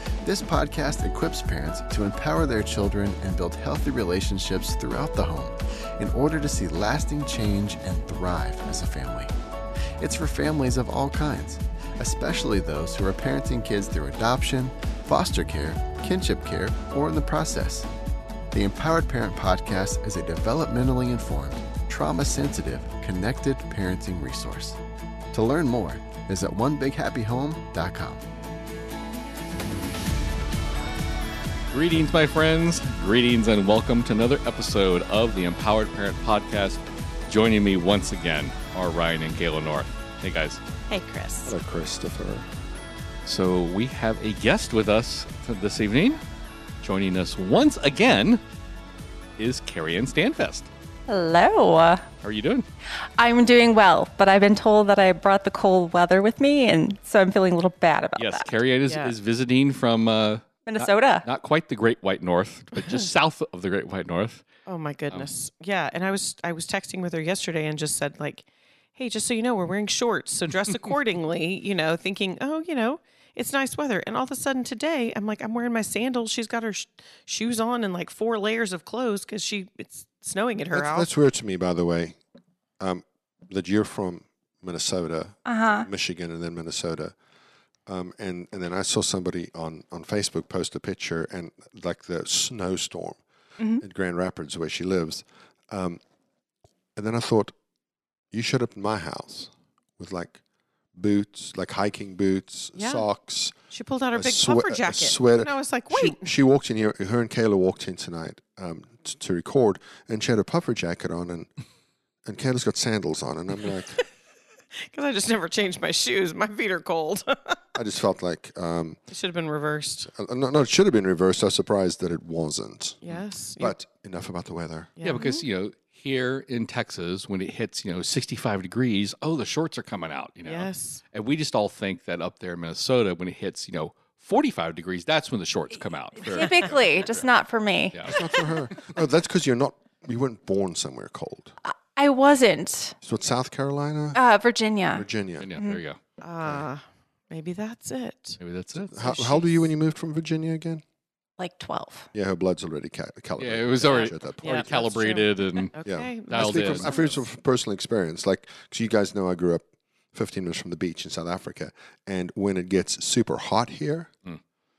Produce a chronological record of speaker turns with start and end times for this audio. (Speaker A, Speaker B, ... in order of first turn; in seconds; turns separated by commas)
Speaker A: 0.2-9.3, Speaker A: 10.0-17.9, Speaker A: 18.5-24.8, Speaker A: 25.3-28.2, Speaker B: 31.7-40.6, Speaker C: 40.9-41.5, Speaker D: 41.4-42.5, Speaker B: 43.2-46.2, Speaker B: 46.8-48.4, Speaker B: 49.4-50.7, Speaker E: 51.1-52.1, Speaker B: 52.2-52.6, Speaker E: 53.1-58.5, Speaker B: 58.2-64.4, Speaker C: 58.9-59.1, Speaker E: 60.6-61.2, Speaker C: 64.7-81.1, Speaker D: 80.7-82.2, Speaker D: 82.8-87.1, Speaker E: 85.4-85.9, Speaker D: 87.9-93.2, Speaker E: 93.6-93.8, Speaker D: 93.8-96.0, Speaker D: 97.0-97.5, Speaker D: 98.3-100.4, Speaker D: 100.9-103.5, Speaker C: 102.8-103.0, Speaker C: 103.7-106.3, Speaker D: 104.1-111.5, Speaker D: 112.2-114.0, Speaker C: 114.8-117.6, Speaker D: 117.7-119.0, Speaker C: 119.1-120.1, Speaker D: 120.1-123.0, Speaker C: 123.0-123.8, Speaker D: 123.6-124.9, Speaker C: 125.0-125.3, Speaker B: 125.0-137.2, Speaker C: 130.4-131.0, Speaker E: 136.2-138.2, Speaker D: 138.0-141.5, Speaker E: 141.6-143.0, Speaker D: 143.0-144.2, Speaker E: 144.1-145.0, Speaker D: 144.9-145.5, Speaker B: 145.4-146.0, Speaker C: 146.2-149.6, Speaker B: 148.4-148.9, Speaker D: 148.9-150.8, Speaker E: 151.4-152.1, Speaker D: 152.1-154.8, Speaker B: 153.4-157.0, Speaker C: 153.8-157.2, Speaker D: 155.8-164.1